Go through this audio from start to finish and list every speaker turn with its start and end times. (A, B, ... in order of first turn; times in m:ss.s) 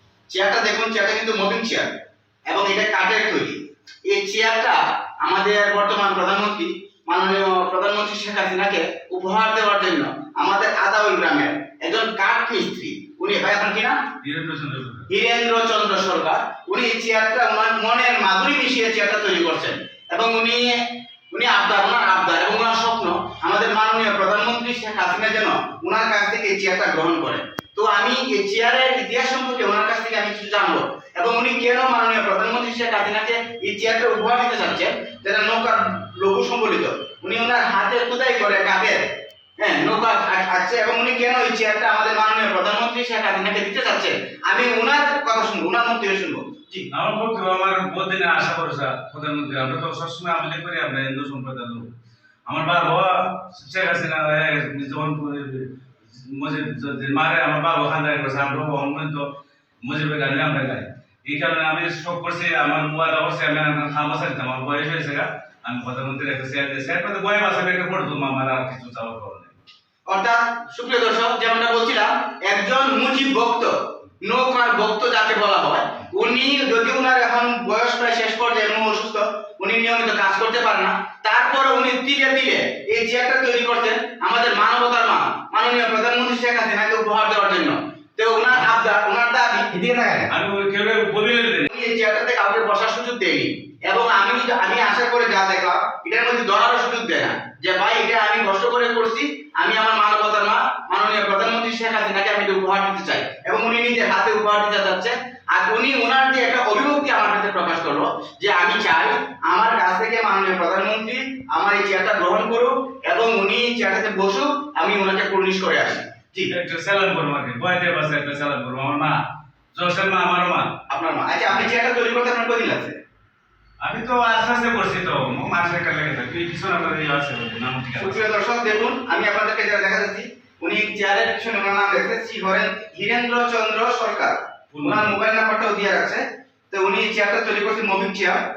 0:00.3-0:01.9 A
0:02.5-0:14.1 A
0:14.2-0:15.1 B
0:15.1-0:39.0 A
0:39.6-0:46.9 A
0:46.9-0:51.9 B
0:52.5-0:59.2 B
0:59.8-1:09.5 B
1:10.1-1:30.3 A
1:30.3-1:31.7 B
1:31.7-1:56.5 A
1:56.5-1:59.2 B
1:59.7-2:00.7 B
2:00.9-2:03.0 A
2:03.8-2:08.3 B
2:08.0-2:18.4 A
2:14.7-2:15.2 B